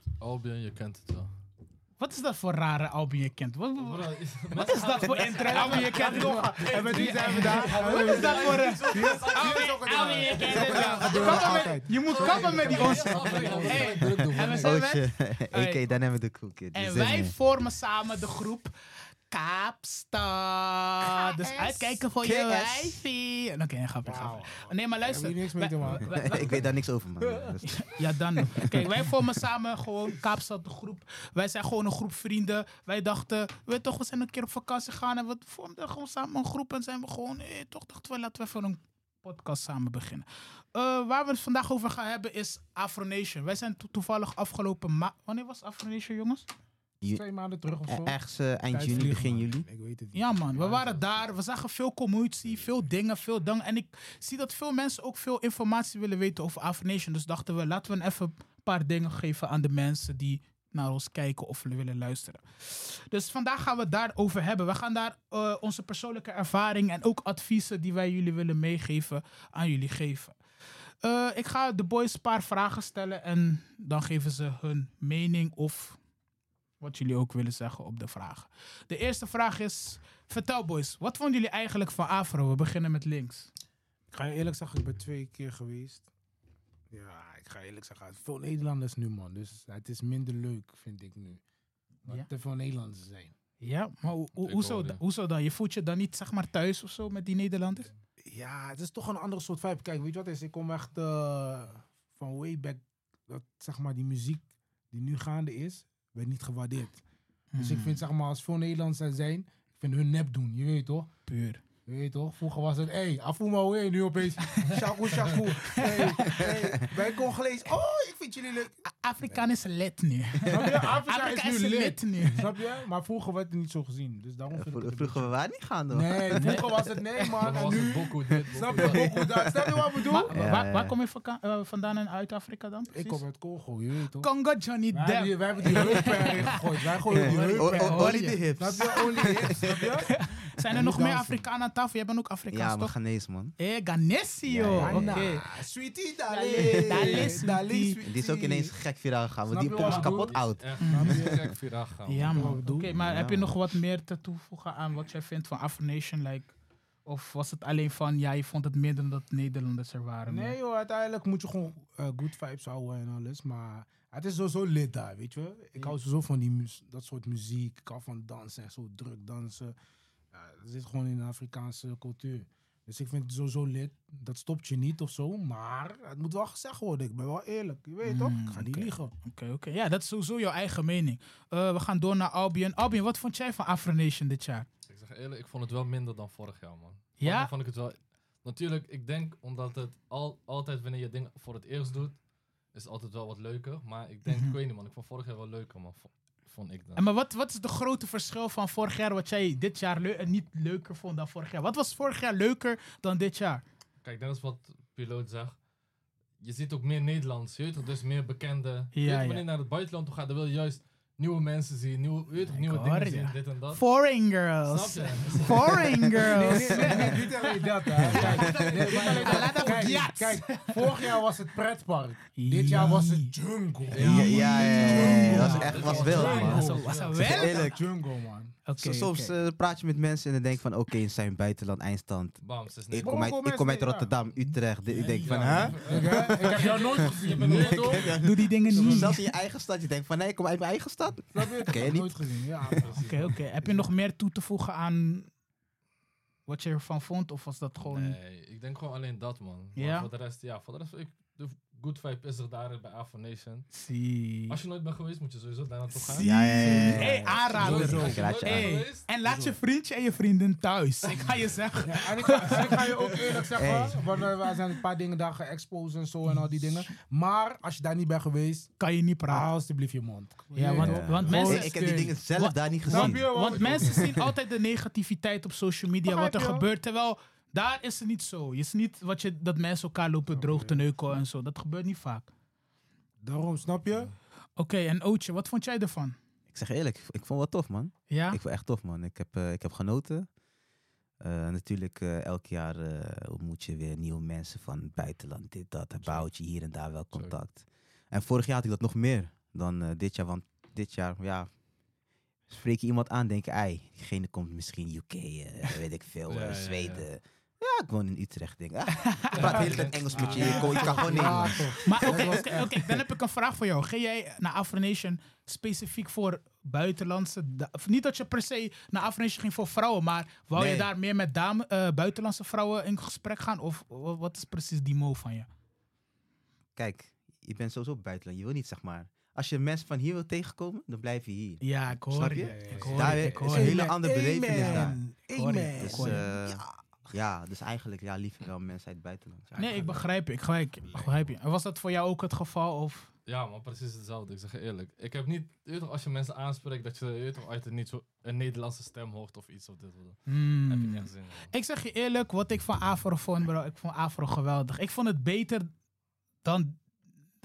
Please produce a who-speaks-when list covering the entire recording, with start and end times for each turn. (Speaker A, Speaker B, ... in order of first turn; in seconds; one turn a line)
Speaker A: 0.2-1.3
Speaker B: 2.0-15.9
Speaker A: 3.8-14.7
Speaker C: 5.4-14.8
Speaker D: 10.7-11.6
Speaker D: 14.0-17.4
Speaker B: 16.7-18.7
Speaker B: 19.3-26.6
Speaker D: 21.9-23.0
Speaker C: 24.1-26.7
Speaker D: 26.0-28.9
Speaker C: 27.2-27.6
Speaker B: 27.6-46.5
Speaker C: 47.1-48.2
Speaker D: 47.9-49.7
Speaker C: 48.7-51.3
Speaker B: 50.1-70.3
Speaker B: 71.0-76.0
Speaker B: 76.8-83.5
Speaker C: 84.1-86.1
Speaker C: 86.9-91.4
Speaker C: 92.0-93.3
Speaker B: 93.6-97.9
Speaker A: 94.4-95.0
Speaker C: 98.3-107.0
Speaker B: 107.5-108.0
Speaker C: 107.6-111.1
Speaker B: 111.3-111.6
Speaker C: 111.9-118.7
Speaker B: 114.6-116.4
Speaker D: 116.3-116.7
Speaker B: 118.9-122.5
Speaker C: 120.5-125.3
Speaker D: 124.5-126.7
Speaker C: 125.9-130.4
Speaker B: 126.3-127.4
Speaker A: 127.4-129.1
Speaker D: 128.3-130.9
Speaker B: 130.1-133.2
Speaker C: 132.9-134.3
Speaker B: 134.2-139.2
Speaker C: 134.9-140.1
Speaker D: 137.1-140.0
Speaker B: 140.1-142.9
Speaker C: 140.7-141.4
Speaker D: 142.5-143.5
Speaker B: 143.6-145.5
Speaker D: 144.4-145.3
Speaker C: 144.8-148.8
Speaker B: 146.3-148.0
Speaker D: 146.6-147.3
Speaker D: 148.0-150.8
Speaker C: 149.5-151.4
Speaker A: 149.8-152.6
Speaker B: 150.8-151.2
Speaker B: 152.1-156.5
Speaker C: 152.3-152.9
Speaker D: 152.9-153.6
Speaker B: 157.1-160.6
Speaker C: 160.3-169.8
Speaker C: 170.3-179.1
Speaker B: 178.0-184.7
Speaker A: 184.9-192.2
Speaker B: 187.2-187.5
Speaker A: 192.7-197.0
Speaker B: 194.3-194.6
Speaker B: 197.0-203.6
Speaker A: 204.0-205.6
Speaker A: 206.4-213.8
Speaker B: 208.9-209.4
Speaker B: 212.5-221.1
Speaker A: 214.7-215.9
Speaker D: 215.9-217.0
Speaker C: 216.2-228.6
Speaker D: 218.1-218.7
Speaker A: 218.1-220.0
Speaker B: 222.3-223.3
Speaker A: 223.9-227.2
Speaker D: 223.9-227.8
Speaker B: 224.0-227.8
Speaker B: 228.7-229.3
Speaker D: 228.8-242.8
Speaker A: 232.4-233.3
Speaker C: 233.0-234.1
Speaker A: 234.9-238.2
Speaker B: 235.0-235.9
Speaker C: 235.1-238.2
Speaker B: 238.2-239.2
Speaker C: 238.7-239.1
Speaker C: 241.3-243.9
Speaker A: 242.8-243.1
Speaker B: 243.0-245.3
Speaker B: 246.5-248.2
Speaker A: 247.8-253.7
Speaker B: 249.8-250.1
Speaker B: 253.7-254.6
Speaker A: 254.5-259.5
Speaker B: 255.9-263.2
Speaker D: 256.2-258.8
Speaker A: 261.0-261.4
Speaker C: 261.8-268.7
Speaker A: 262.6-262.8
Speaker D: 263.6-264.0
Speaker B: 266.2-266.9
Speaker B: 268.8-269.5
Speaker C: 269.3-272.1
Speaker B: 270.5-271.8
Speaker D: 270.7-274.2
Speaker B: 272.4-282.3
Speaker C: 272.9-274.2
Speaker C: 276.1-276.7
Speaker C: 280.3-280.9
Speaker C: 283.2-284.1
Speaker B: 284.6-286.2
Speaker D: 286.5-290.3
Speaker B: 288.1-288.4
Speaker D: 291.2-301.5
Speaker D: 302.5-313.0
Speaker A: 306.3-307.1
Speaker B: 309.2-309.6
Speaker A: 309.3-311.4
Speaker C: 309.4-312.7
Speaker B: 310.4-325.5
Speaker D: 320.5-320.9
Speaker D: 326.8-335.0
Speaker B: 331.6-333.9
Speaker C: 332.4-336.6
Speaker B: 334.4-336.3
Speaker D: 335.8-340.0
Speaker B: 339.6-343.1
Speaker A: 343.3-351.5
Speaker B: 350.3-355.7
Speaker B: 356.4-356.8